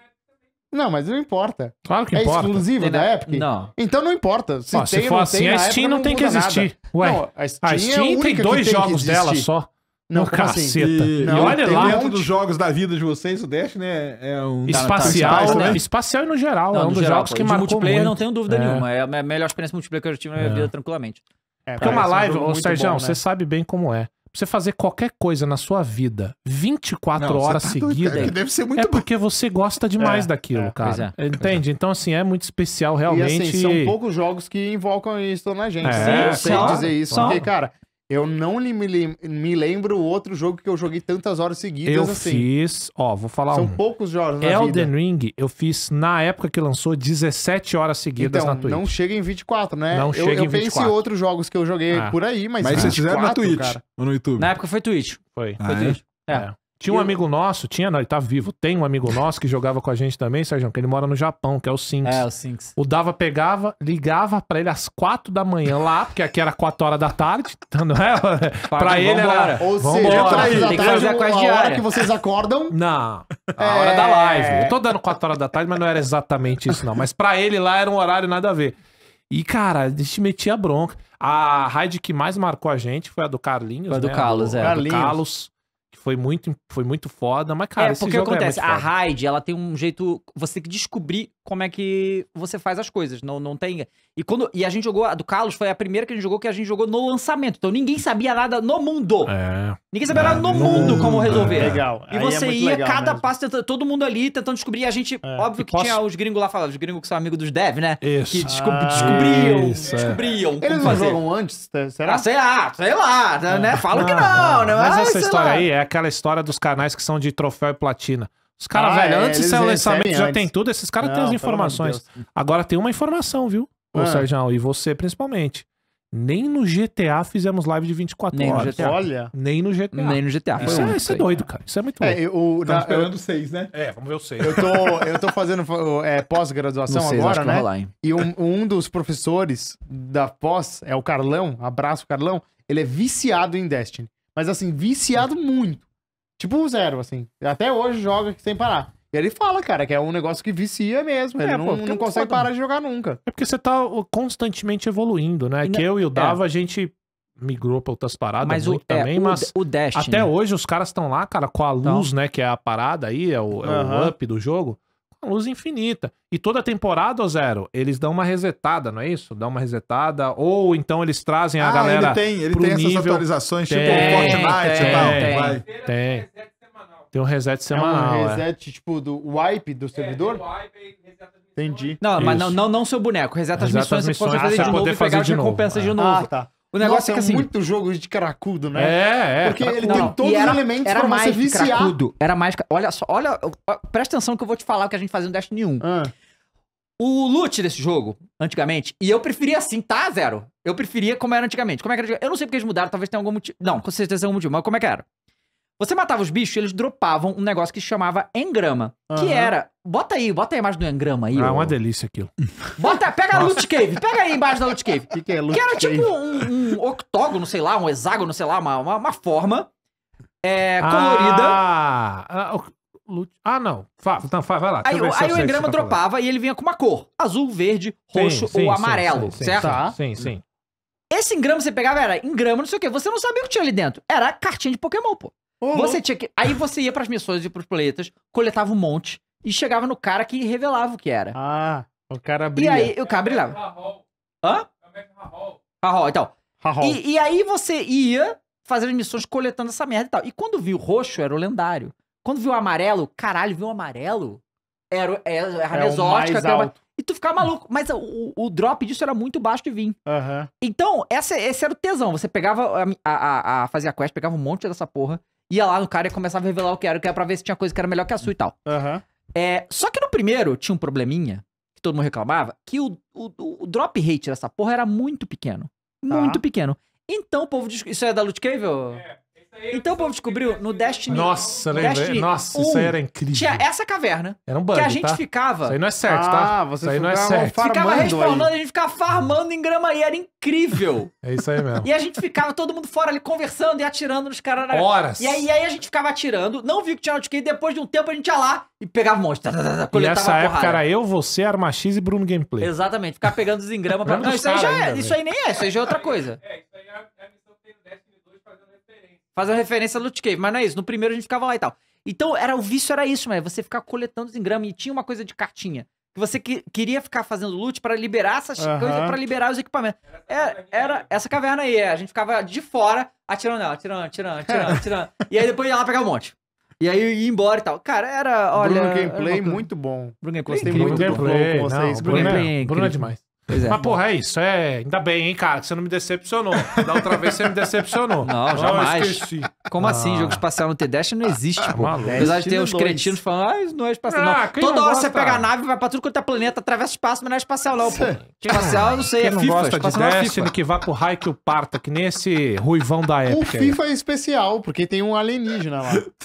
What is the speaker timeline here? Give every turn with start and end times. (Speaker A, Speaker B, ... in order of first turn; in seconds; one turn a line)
Speaker A: 0.7-9.5
Speaker B: 1.9-2.7
Speaker C: 2.8-3.7
Speaker B: 4.7-12.1
Speaker A: 10.1-12.3
Speaker D: 10.8-15.8
Speaker B: 14.7-18.8
Speaker C: 14.7-15.8
Speaker A: 15.1-15.8
Speaker C: 16.7-21.2
Speaker B: 20.4-20.7
Speaker A: 21.7-23.2
Speaker B: 21.8-34.0
Speaker D: 27.2-29.1
Speaker C: 28.1-28.4
Speaker A: 30.0-30.8
Speaker C: 30.8-31.1
Speaker A: 33.1-42.5
Speaker B: 35.8-37.5
Speaker C: 36.0-37.4
Speaker B: 41.9-43.8
Speaker A: 43.5-44.9
Speaker B: 44.4-48.9
Speaker A: 48.2-53.8
Speaker B: 49.9-51.0
Speaker B: 51.9-52.2
Speaker D: 52.6-54.5
Speaker C: 54.4-57.0
Speaker B: 55.4-55.6
Speaker D: 55.6-56.0
Speaker B: 56.3-71.0
Speaker C: 62.0-62.7
Speaker C: 68.7-71.9
Speaker A: 69.6-72.8
Speaker D: 70.0-71.0
Speaker B: 72.7-78.8
Speaker A: 73.6-74.8
Speaker B: 79.3-88.9
Speaker C: 83.9-84.8
Speaker A: 84.6-85.2
Speaker C: 87.8-99.3
Speaker B: 99.3-101.8
Speaker C: 99.9-111.2
Speaker A: 100.6-103.2
Speaker D: 100.7-101.5
Speaker B: 105.6-106.0
Speaker B: 108.0-110.2
Speaker A: 108.5-110.1
Speaker A: 110.6-112.3
Speaker C: 112.1-115.7
Speaker A: 113.5-113.8
Speaker B: 113.9-132.2
Speaker A: 118.7-122.1
Speaker A: 123.9-124.3
Speaker C: 128.3-129.0
Speaker A: 128.5-129.3
Speaker C: 129.9-131.3
Speaker A: 130.6-131.0
Speaker A: 132.0-133.1
Speaker D: 132.6-133.7
Speaker B: 133.7-134.6
Speaker A: 134.4-145.8
Speaker D: 134.5-135.2
Speaker C: 136.9-137.9
Speaker A: 146.4-153.2
Speaker C: 151.4-152.5
Speaker B: 153.3-176.3
Speaker C: 155.6-156.4
Speaker C: 158.4-160.3
Speaker C: 161.8-162.1
Speaker A: 163.6-164.1
Speaker D: 171.6-175.7
Speaker C: 173.8-175.6
Speaker B: 177.1-178.4
Speaker A: 177.7-180.5
Speaker A: 181.6-182.0
Speaker C: 182.0-187.5
Speaker B: 182.2-182.6
Speaker B: 183.6-185.9
Speaker A: 184.3-184.8
Speaker A: 186.0-192.0
Speaker B: 188.7-190.2
Speaker C: 189.8-195.9
Speaker A: 195.8-196.1
Speaker C: 197.0-205.1
Speaker C: 205.8-211.8
Speaker A: 209.1-209.6
Speaker B: 211.3-212.3
Speaker C: 212.8-219.7
Speaker A: 215.1-216.2
Speaker C: 220.4-221.6
Speaker B: 220.8-226.0
Speaker C: 224.8-229.8
Speaker B: 228.1-230.4
Speaker A: 229.6-230.0
Speaker C: 231.1-241.4
Speaker A: 235.6-236.0
Speaker A: 241.3-242.9
Speaker C: 242.6-243.8
Speaker C: 244.4-244.7
Speaker C: 245.8-260.0
Speaker A: 246.6-247.0
Speaker A: 255.7-256.8
Speaker A: 260.1-260.5
Speaker C: 260.6-268.6
Speaker A: 268.7-269.0
Speaker C: 269.4-279.1
Speaker A: 276.1-276.4
Speaker C: 279.6-285.8
Speaker B: 281.1-283.6
Speaker B: 284.5-287.7
Speaker A: 286.1-288.5
Speaker C: 287.6-291.1
Speaker B: 291.2-291.9
Speaker C: 291.8-300.8
Speaker B: 294.7-295.5
Speaker B: 299.9-302.7
Speaker C: 302.6-306.4
Speaker B: 304.0-305.2
Speaker C: 309.3-329.7
Speaker A: 318.6-319.2
Speaker A: 324.5-324.8
Speaker A: 328.6-332.5
Speaker C: 330.2-331.4
Speaker B: 330.6-340.4
Speaker C: 332.1-334.0
Speaker D: 336.7-337.3
Speaker C: 338.2-350.5
Speaker B: 341.7-342.4
Speaker A: 342.0-343.2
Speaker B: 344.1-345.5
Speaker A: 347.9-348.2
Speaker B: 348.4-353.8
Speaker A: 353.3-356.1